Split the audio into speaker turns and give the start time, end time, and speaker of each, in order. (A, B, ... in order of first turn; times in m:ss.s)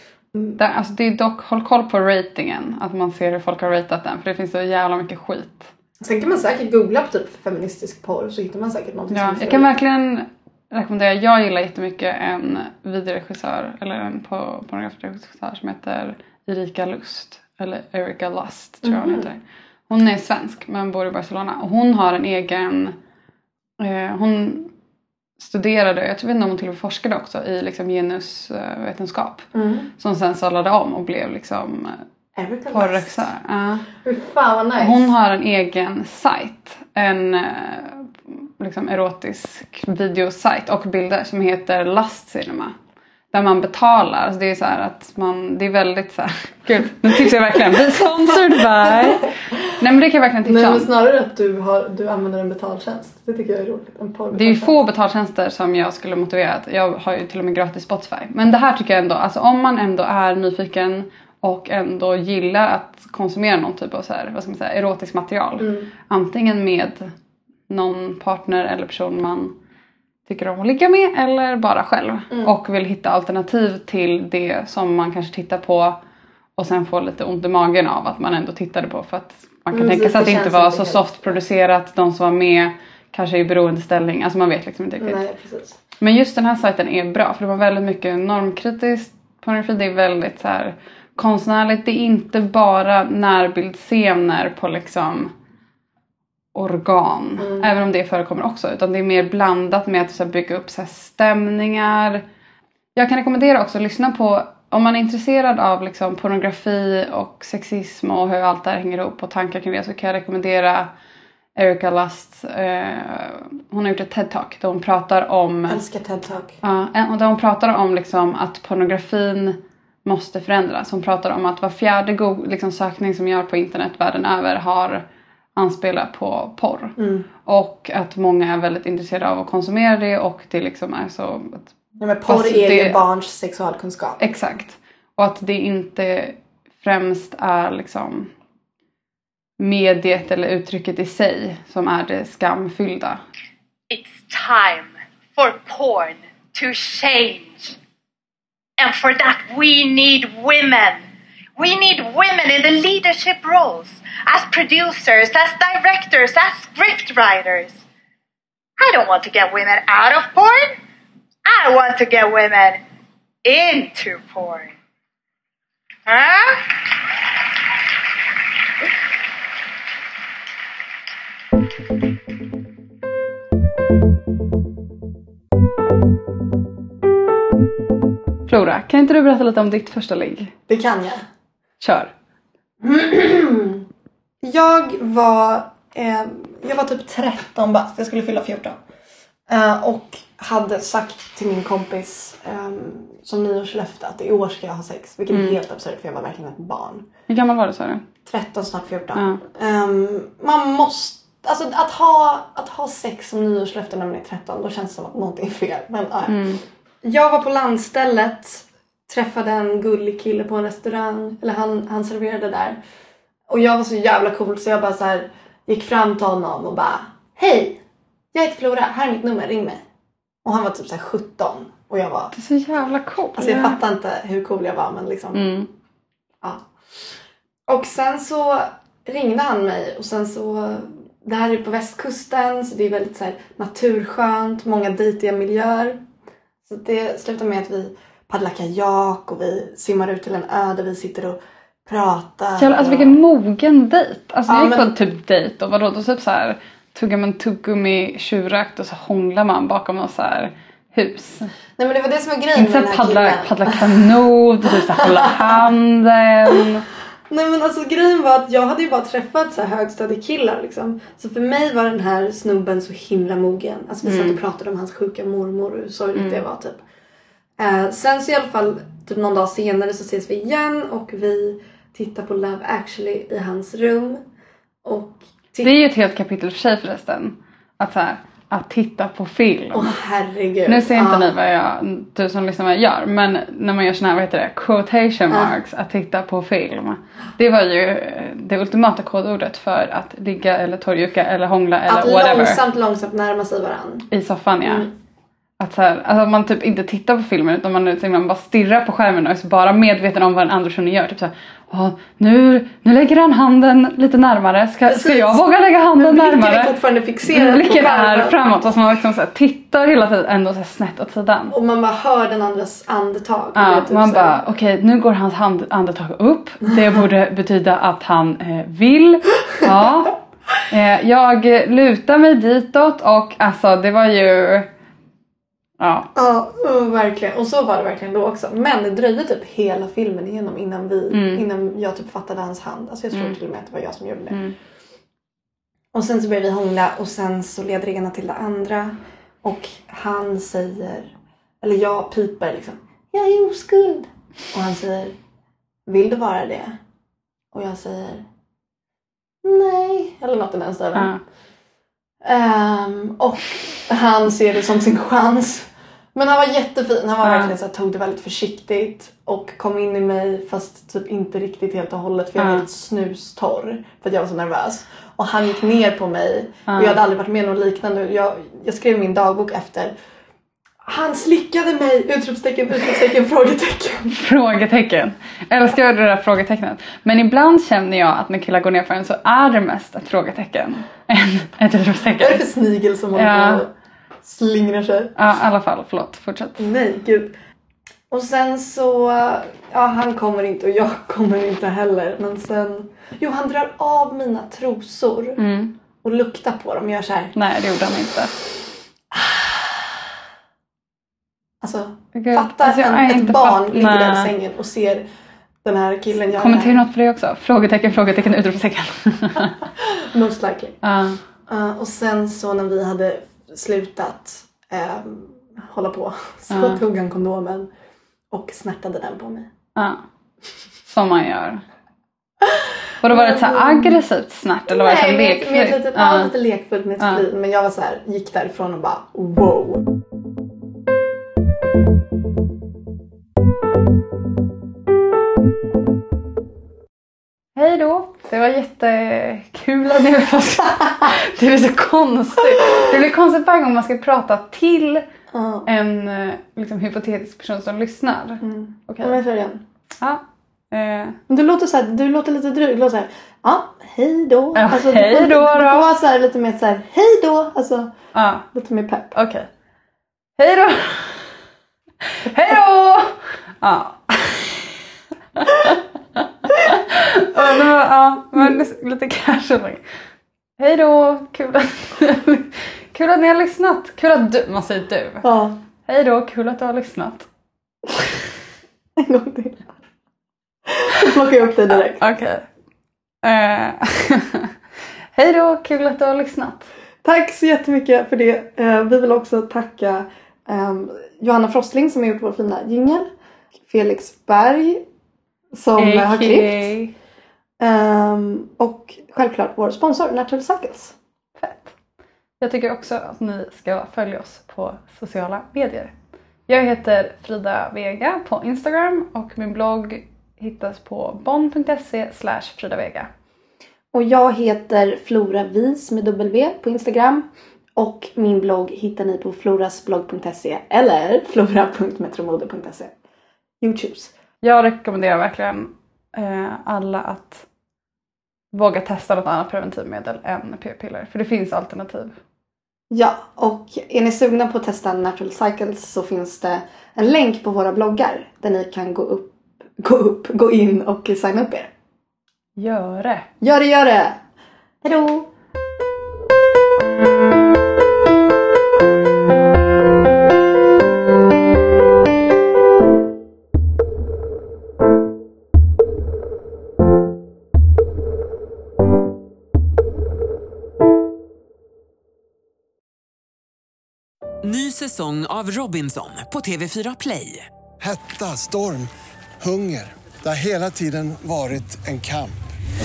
0:00.6-0:05.7 A
0:06.0-0:09.7 B
0:09.1-0:22.9 A
0:18.8-0:19.2 B
0:23.8-0:24.7 A
0:25.4-0:32.0 A
0:29.5-0:29.9 B
0:32.4-0:33.3 B
0:32.7-0:33.9 A
0:34.0-0:35.1 B
0:34.8-0:42.7 A
0:43.3-0:50.9 A
0:50.4-0:54.8 B
0:54.3-1:07.1 A
1:05.6-1:05.9 B
1:07.7-1:09.5 A
1:10.2-1:16.0 A
1:12.3-1:12.5 B
1:16.6-1:25.2 A
1:19.7-1:21.4 B
1:25.0-1:25.8 B
1:26.0-1:35.3 A
1:36.5-1:42.2 A
1:37.4-1:37.7 B
1:43.0-1:50.9 A
1:51.6-1:55.8 A
1:55.7-1:56.5 B
1:56.6-2:05.0 A
2:05.6-2:11.7 A
2:07.0-2:07.3 B
2:12.0-2:14.2 B
2:12.2-2:13.0 A
2:14.2-2:18.3 A
2:19.6-2:23.2 A
2:23.9-2:27.8 C
2:28.8-2:31.0 C
2:31.6-2:37.8 C
2:38.8-2:40.8 C
2:41.4-2:42.8 C
2:43.4-2:44.7 C
2:46.0-2:46.8 C
2:58.5-3:00.5 A
3:00.7-3:01.2 B
3:01.8-3:02.1 A
3:02.8-3:03.8 B
3:04.4-3:08.8 B
3:09.5-3:17.1 B
3:17.3-3:18.0 A
3:18.2-3:32.8 B
3:19.1-3:19.4 A
3:26.3-3:26.6 A
3:33.5-3:37.8 B
3:38.3-3:39.8 B
3:40.4-3:42.3 B
3:42.3-3:43.8 A
3:43.4-3:45.4 B
3:45.3-3:45.7 A
3:47.7-3:56.0 B
3:56.6-4:03.2 B
4:02.6-4:11.5 A
4:04.5-4:04.9 B
4:11.8-4:13.8 B
4:12.6-4:16.8 A
4:14.7-4:15.7 B
4:17.3-4:26.8 B
4:24.0-4:24.4 A
4:26.1-4:26.4 A
4:27.6-4:34.2 B
4:34.8-4:35.7 B
4:35.6-4:40.0 A
4:39.7-4:41.3 B
4:40.6-4:52.6 A
4:51.9-4:54.1 B
4:54.1-4:54.9 A
4:54.6-4:54.9 B
4:55.6-5:06.7 A
5:04.8-5:05.4 B
5:05.9-5:08.4 B
5:07.3-5:11.5 A
5:11.5-5:14.4 B
5:13.6-5:24.7 A
5:25.8-5:26.1 A
5:26.1-5:34.4 B
5:31.1-5:31.4 A
5:34.3-5:34.6 A
5:35.9-5:45.1 B
5:45.9-5:46.8 B
5:47.5-5:48.2 B
5:49.4-5:51.1 B
5:50.9-5:51.2 A
5:52.2-6:09.9 B
5:57.2-5:57.5 A
6:02.4-6:02.6 A
6:06.7-6:07.0 A
6:10.8-6:14.2 B
6:14.1-6:22.4 A
6:22.2-6:23.7 B
6:23.1-6:23.6 A
6:24.2-6:25.1 B
6:25.2-6:26.7 A
6:26.6-6:27.3 B
6:28.1-6:35.4 B
6:35.4-6:35.7 A
6:36.0-6:37.3 B
6:37.3-6:38.3 A
6:39.1-6:40.0 B
6:41.6-6:45.0 B
6:42.1-6:44.3 A
6:45.6-6:46.8 B
6:46.3-6:49.6 A
6:49.8-6:50.8 B
6:50.8-6:51.2 A
6:51.5-6:57.7 B
6:56.5-6:56.8 A
6:58.3-6:59.5 B
6:59.7-7:00.0 A
7:00.8-7:01.6 A
7:02.4-7:04.0 B
7:03.0-7:06.3 A
7:04.7-7:09.8 B
7:17.6-7:25.0 A
7:25.3-7:25.7 B
7:25.6-7:29.2 A
7:28.4-7:29.6 B
7:30.0-7:31.2 A
7:31.3-7:37.9 B
7:34.5-7:35.9 A
7:38.1-7:38.4 A
7:38.5-7:39.1 B
7:39.1-7:39.5 A
7:40.4-7:41.3 A
7:42.1-7:44.7 A
7:45.4-7:49.8 A
7:50.6-7:55.2 A
7:55.2-7:55.6 B
7:55.8-7:57.3 A
7:59.0-7:59.8 B
8:00.7-8:02.0 B
8:01.9-8:02.4 A
8:03.2-8:04.5 A
8:05.1-8:06.7 A
8:07.0-8:13.1 B
8:13.6-8:14.8 B
8:15.5-8:16.7 B
8:15.8-8:16.9 A
8:17.6-8:21.0 B
8:21.4-8:21.7 A
8:22.4-8:25.9 A
8:26.5-8:33.1 A
8:33.9-8:42.9 B
8:43.6-8:44.1 B
8:44.4-8:47.5 A
8:48.5-8:52.2 A
8:52.9-9:01.7 B
9:02.6-9:03.3 A
9:03.4-9:04.2 B
9:04.8-9:05.3 B
9:24.4-9:27.5 D
9:27.8-9:28.9 E
9:29.4-9:32.4 E